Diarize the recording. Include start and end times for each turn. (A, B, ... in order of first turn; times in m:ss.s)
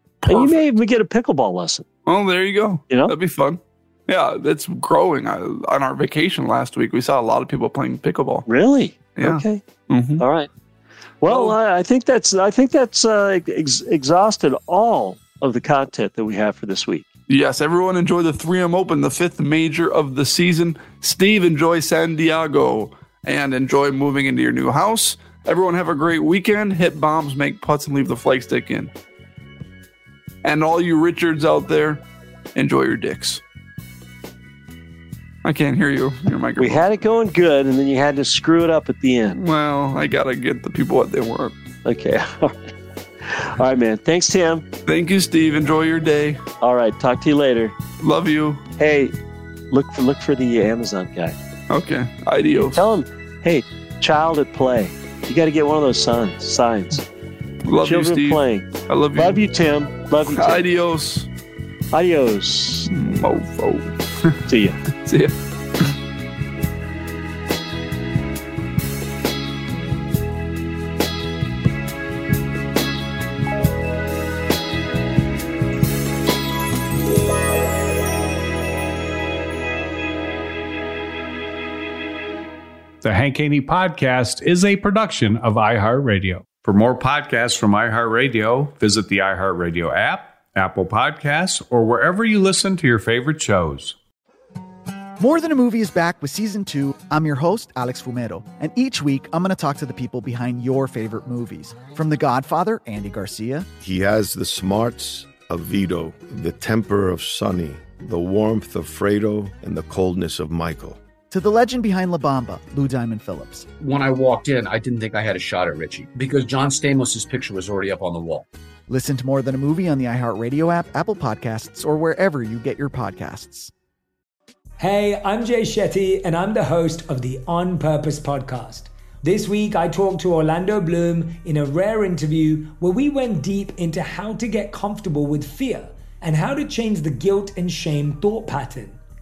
0:00.2-0:00.6 A
0:00.3-0:01.9 B
0:02.1-0:08.5 A
0:08.5-0:09.6 B
0:09.2-0:10.2 A
0:10.2-0:10.5 B
0:11.2-0:17.1 B
0:11.2-0:11.6 A
0:17.3-0:28.9 A
0:30.4-0:32.0 A
0:32.6-0:33.4 A
0:35.4-0:37.0 A
0:36.6-0:39.4 B
0:39.4-0:41.6 A
0:41.8-0:42.6 B
0:43.2-0:44.7 B
0:44.9-0:46.4 A
0:46.6-0:47.8 B
0:48.0-0:48.6 A
0:48.8-0:49.1 B
0:49.7-0:51.3 B
0:51.7-0:52.8 A
0:52.7-0:57.0 B
0:57.6-0:59.4 A
0:57.8-1:00.6 B
1:00.3-1:01.3 A
1:01.9-1:02.9 B
1:02.9-1:04.4 A
1:04.5-1:04.8 B
1:05.0-1:05.9 A
1:23.0-1:34.0 C
1:35.2-1:43.7 D
1:43.8-1:51.0 E
1:51.3-1:53.7 D
1:53.8-1:58.5 F
1:58.9-2:03.7 D
2:04.8-2:19.0 G